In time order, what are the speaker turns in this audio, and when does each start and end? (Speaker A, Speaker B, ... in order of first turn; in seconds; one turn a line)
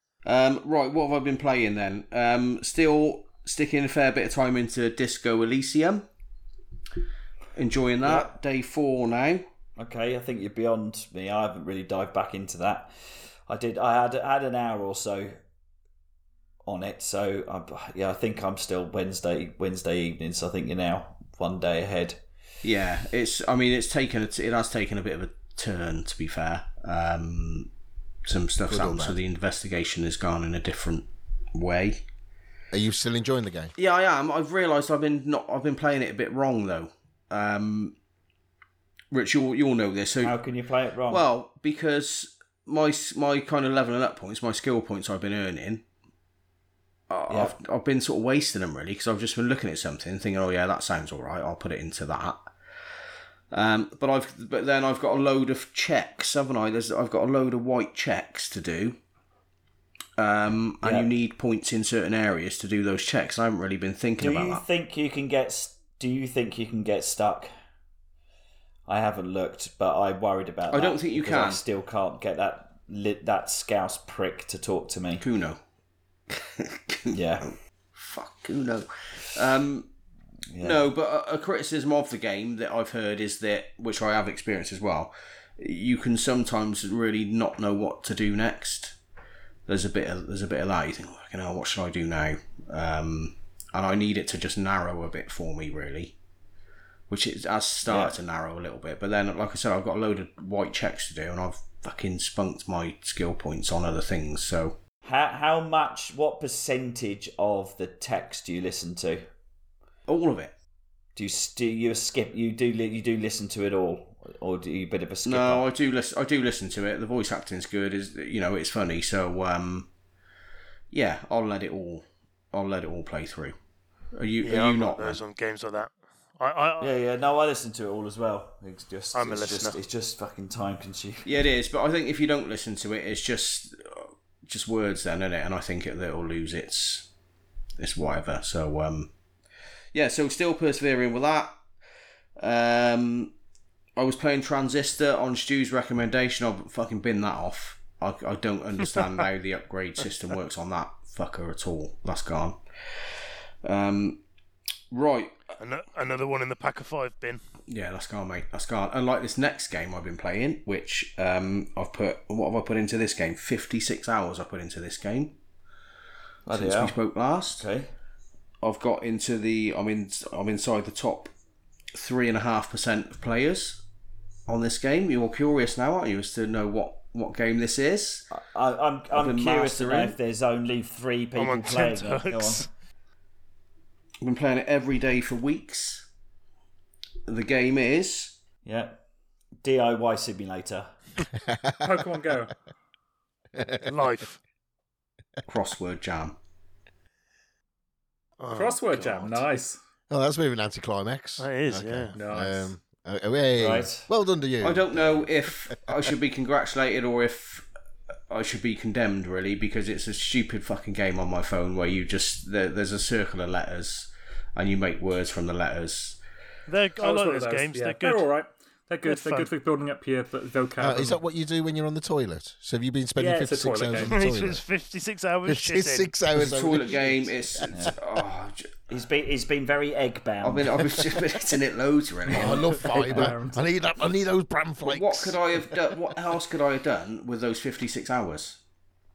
Speaker A: 0.2-6.1
Speaker A: 7.5-9.4
Speaker B: 8.0-8.3
Speaker B: 9.8-12.9
Speaker B: 13.5-15.4
Speaker B: 16.6-22.2
Speaker A: 22.6-27.7
Speaker A: 28.2-32.0
Speaker C: 28.7-29.2
Speaker C: 32.7-33.7
Speaker A: 33.8-38.0
Speaker A: 39.1-40.4
Speaker B: 40.2-41.2
Speaker A: 41.1-45.8
Speaker A: 47.1-52.5
Speaker B: 47.3-47.5
Speaker A: 53.5-59.0
Speaker A: 60.2-64.6
Speaker B: 60.8-61.1
Speaker B: 64.2-67.5
Speaker B: 68.9-75.2
Speaker A: 70.7-71.6
Speaker A: 75.2-75.6
Speaker A: 76.3-79.9
Speaker B: 77.1-77.5
Speaker B: 80.5-80.8
Speaker A: 80.6-89.0
Speaker A: 89.7-96.2
Speaker A: 97.1-104.8
Speaker B: 97.8-98.2
Speaker B: 105.0-109.3
Speaker A: 110.1-110.5
Speaker B: 111.2-115.7
Speaker A: 115.2-119.9
Speaker A: 120.9-123.5
Speaker A: 124.1-125.2
Speaker D: 124.4-126.9
Speaker B: 126.8-131.3
Speaker D: 129.1-129.8
Speaker A: 131.2-137.1
Speaker A: 137.8-139.1
Speaker A: 139.9-141.6
Speaker A: 142.4-143.3
Speaker A: 143.9-153.0
Speaker A: 153.6-154.2
Speaker A: 154.9-155.4
Speaker D: 155.6-157.4
Speaker A: 157.7-165.4
Speaker B: 166.4-167.0
Speaker A: 166.5-167.6
Speaker B: 167.5-167.9
Speaker A: 168.6-171.3
Speaker A: 171.9-173.8
Speaker A: 174.5-178.3
Speaker B: 178.3-182.7
Speaker A: 179.1-180.2
Speaker D: 181.3-182.7
Speaker A: 184.2-186.1
Speaker A: 187.3-188.4
Speaker B: 188.6-189.0
Speaker B: 189.6-190.9
Speaker C: 191.4-191.8
Speaker E: 191.8-192.5
Speaker C: 193.6-193.9
Speaker D: 193.8-194.4
Speaker A: 195.5-196.4
Speaker C: 198.4-199.1
Speaker E: 198.5-199.8
Speaker D: 198.9-199.3
Speaker C: 200.1-205.2
Speaker D: 201.4-202.2
Speaker E: 202.1-202.7
Speaker B: 203.6-204.1
Speaker A: 204.6-207.7
Speaker A: 208.3-216.2
Speaker D: 216.7-218.2
Speaker E: 217.0-221.2
Speaker D: 219.0-219.5
Speaker C: 220.8-224.6
Speaker E: 223.2-224.2
Speaker D: 224.0-226.1
Speaker C: 225.5-227.7
Speaker A: 226.3-228.9
Speaker B: 227.7-227.9
Speaker B: 228.9-231.0
Speaker A: 230.4-232.8
Speaker C: 232.3-235.6
Speaker E: 232.3-233.6
Speaker A: 234.8-238.6